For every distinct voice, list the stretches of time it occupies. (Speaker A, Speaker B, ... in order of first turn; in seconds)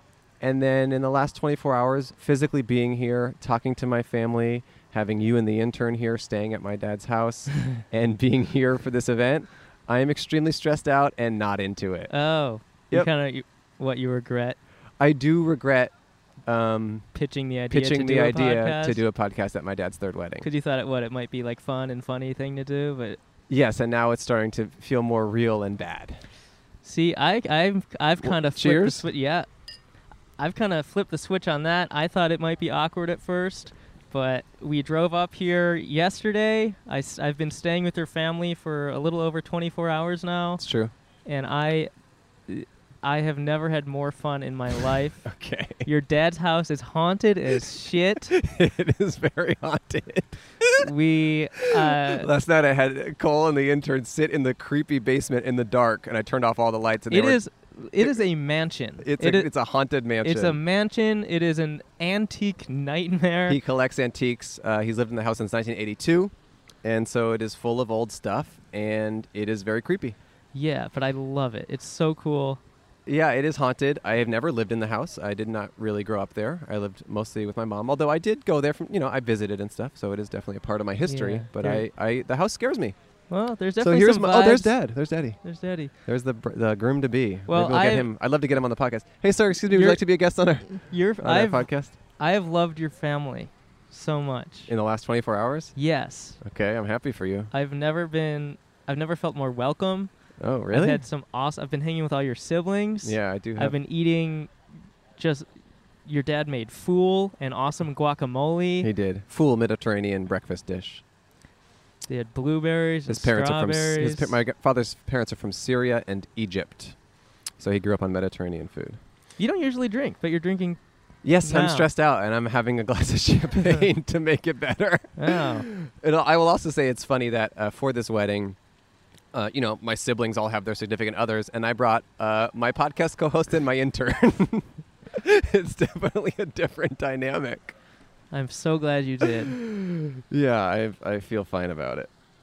Speaker A: 0.4-12.1, 15.0-15.9, 16.4-17.1, 17.7-20.5, 23.5-26.2, 28.2-29.0, 40.6-40.9, 45.2-45.9, 48.3-50.9, 51.7-57.4, 59.0-60.6, 63.5-70.2, 73.0-83.0, 83.8-85.4, 86.0-91.9, 94.7-95.7, 96.4-97.5, 100.4-101.0, 103.0-103.8, 108.8-111.0, 113.1-117.0, 117.6-119.0, 121.2-128.6, 129.3-137.8, 139.2-142.1
Speaker B: 12.1-14.6, 17.1-19.0, 20.4-23.2, 26.8-29.5, 30.4-40.6, 41.2-41.9, 42.5-45.3, 45.8-48.3, 50.8-52.3, 57.1-59.5, 60.2-63.6, 70.5-72.6, 81.0-81.8, 83.3-84.8, 85.4-85.9, 87.5-88.1, 89.7-90.0, 90.8-94.7, 95.8-96.4, 97.5-100.1, 100.7-104.5, 105.2-105.5, 106.0-108.9, 112.1-114.3, 119.4-120.8, 121.4-121.9, 125.2-125.7, 138.3-139.5